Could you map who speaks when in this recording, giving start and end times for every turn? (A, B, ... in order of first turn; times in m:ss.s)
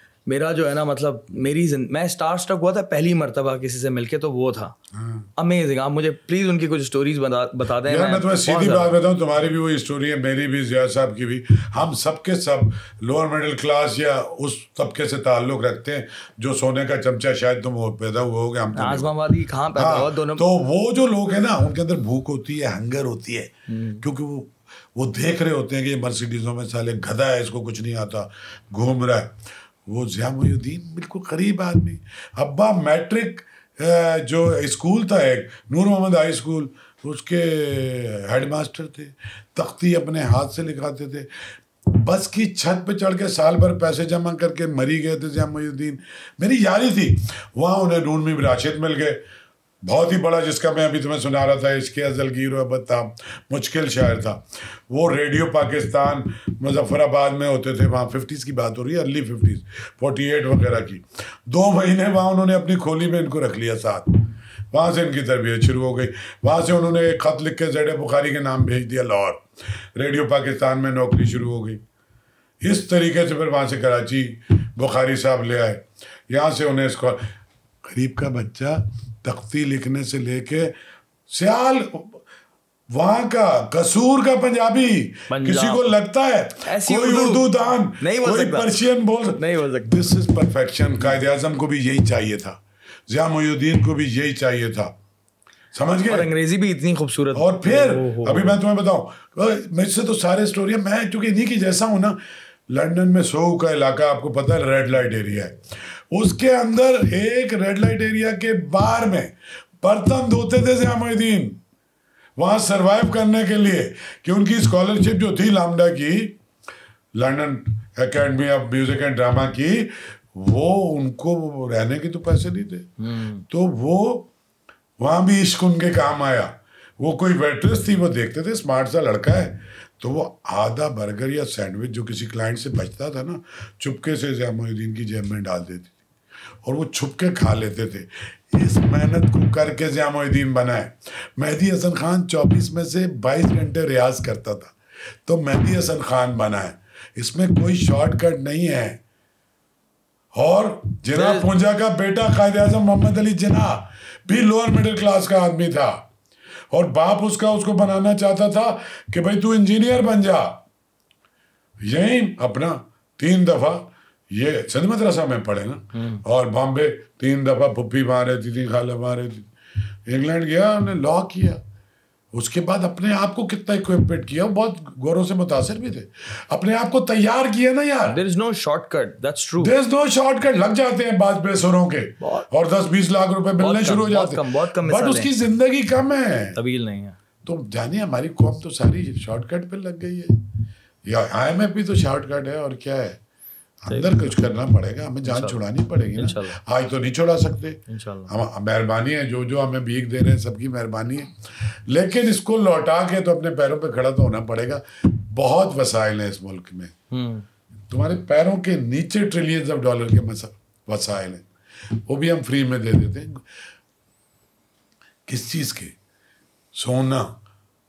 0:00.3-0:04.7 A
0:04.9-0:05.3 B
0:05.4-0:09.0 A
0:07.8-0:19.1 B
0:18.7-0:20.4 A
0:19.7-0:49.2 B
0:23.7-0:24.0 A
0:49.8-1:09.4 B
1:10.0-1:11.8 B
1:12.6-1:17.2 B
1:17.9-1:20.7 B
1:21.3-1:22.2 B
1:22.9-1:34.9 B
1:25.3-1:25.9 A
1:26.6-1:28.7 A
1:29.3-1:30.1 A
1:35.7-1:36.3 B
1:36.1-1:38.6 A
1:37.3-1:42.2 B
1:42.7-1:45.6 B
1:46.1-1:51.6 B
1:52.4-1:56.4 B
1:57.2-2:02.9 B
2:03.0-2:03.4 A
2:03.5-2:04.3 B
2:05.0-2:15.9 B
2:16.6-2:24.7 B
2:25.2-2:29.0 B
2:30.3-2:36.0 B
2:31.1-2:31.5 A
2:36.7-2:40.6 B
2:41.8-2:49.5 B
2:45.9-2:46.2 A
2:50.1-2:51.6 B
2:52.3-2:58.2 B
2:58.1-2:59.7 A
2:59.6-3:06.6 B
3:02.2-3:02.5 A
3:03.6-3:05.3 A
3:06.5-3:07.2 A
3:07.4-3:10.4 B
3:11.0-3:13.2 B
3:13.8-3:26.9 B
3:13.9-3:14.3 A
3:15.2-3:15.6 A
3:16.1-3:16.6 A
3:17.9-3:18.3 A
3:27.1-3:27.4 A
3:27.9-3:31.4 B
3:32.0-3:33.4 B
3:35.3-3:35.9 B
3:36.7-3:37.3 B